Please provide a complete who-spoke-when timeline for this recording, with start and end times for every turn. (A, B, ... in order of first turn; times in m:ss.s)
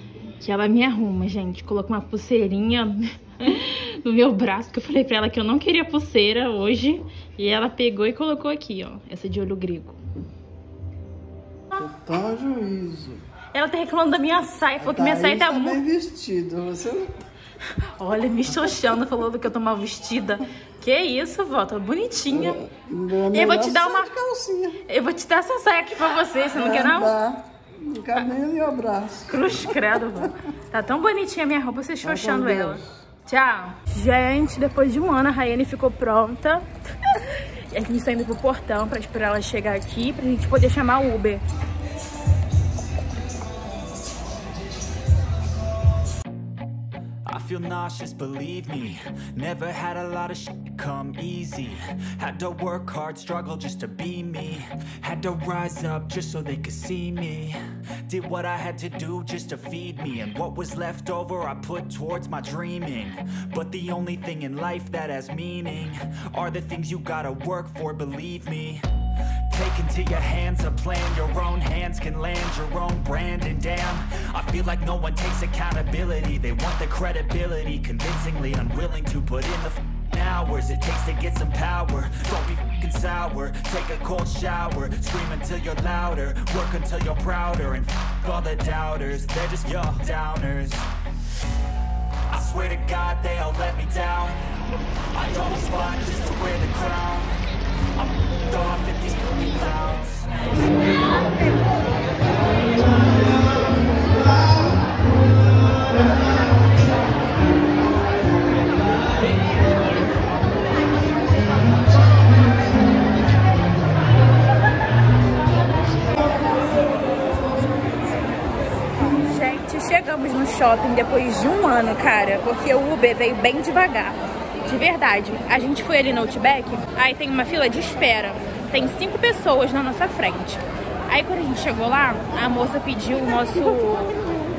0:00.4-0:10.0 A
0:11.7-0:13.2 B
0:13.5-0:15.8 A
0:14.8-0:17.1 B
0:18.0-0:22.6 A
0:22.3-0:24.8 B
0:23.3-0:24.1 A
0:24.9-0:27.1 A
0:26.5-0:30.2 B
0:29.3-0:41.4 A
0:32.0-0:32.8 B
0:47.2-1:08.8 C
1:09.5-1:30.9 C
1:32.3-1:34.4 C
1:35.1-1:37.4 C
1:38.0-1:40.4 C
1:59.2-2:14.2 A